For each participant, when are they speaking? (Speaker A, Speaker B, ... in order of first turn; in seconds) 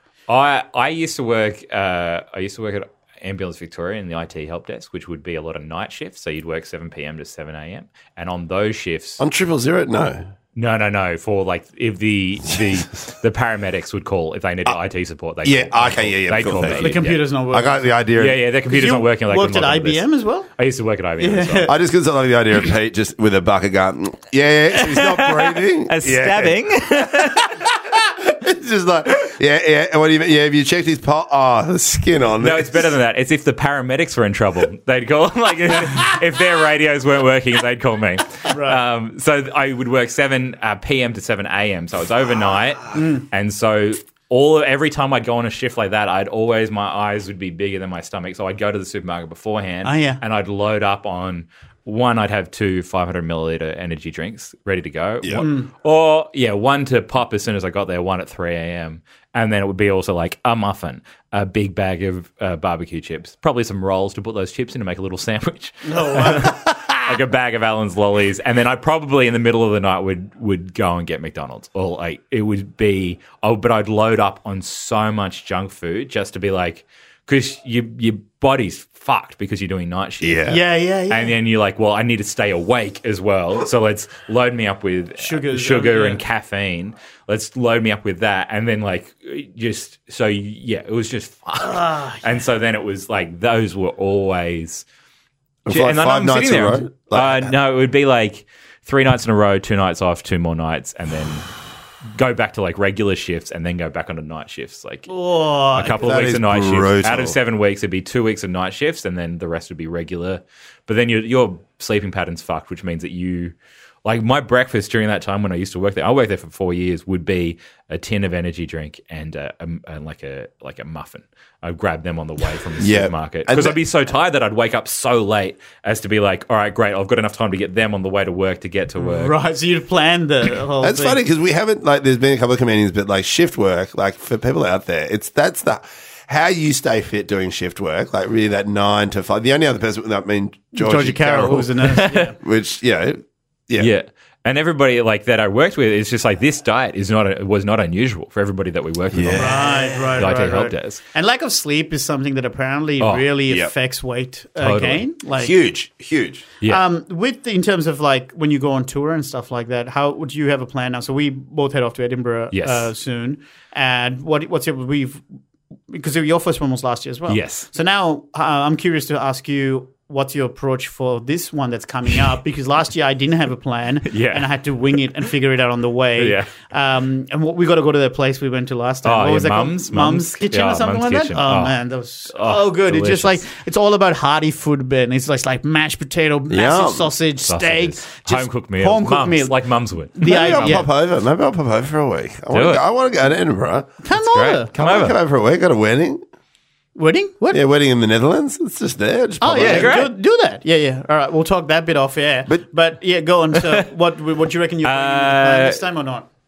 Speaker A: 0.3-9.2, 10.6-17.2, 18.2-20.0, 20.6-21.7, 24.7-27.7, 32.4-80.6, 81.1-94.8, 95.7-101.5, 102.1-105.1, 105.7-113.5, 114.0-129.4, 141.8-142.3, 143.8-151.0, 153.0-153.2, 154.6-155.0, 162.5-162.9, 167.3-167.7, 174.0-174.5, 176.2-176.5, 179.0-183.4, 187.5-190.7, 192.5-192.8, 194.2-195.2, 199.6-200.1, 204.8-205.8
Speaker B: 9.2-10.2, 15.4-18.4, 21.7-32.9, 80.2-80.6, 95.7-97.5, 106.0-107.4, 122.8-123.8, 130.8-143.9, 149.1-149.6, 153.5-153.7, 155.3-156.4, 186.5-187.1, 190.2-193.9, 194.7-196.2, 197.5-200.1
Speaker C: 16.6-17.8, 18.7-20.5, 21.2-21.7, 38.5-38.8, 42.9-43.2, 49.8-50.2, 55.4-55.7, 65.8-66.7, 80.5-81.3, 85.2-86.2, 91.6-92.2, 105.1-106.1, 129.0-131.2, 140.7-142.3, 149.4-155.5, 156.6-165.2, 165.9-189.6, 190.1-190.9, 194.0-194.7, 196.9-197.6, 199.4-206.2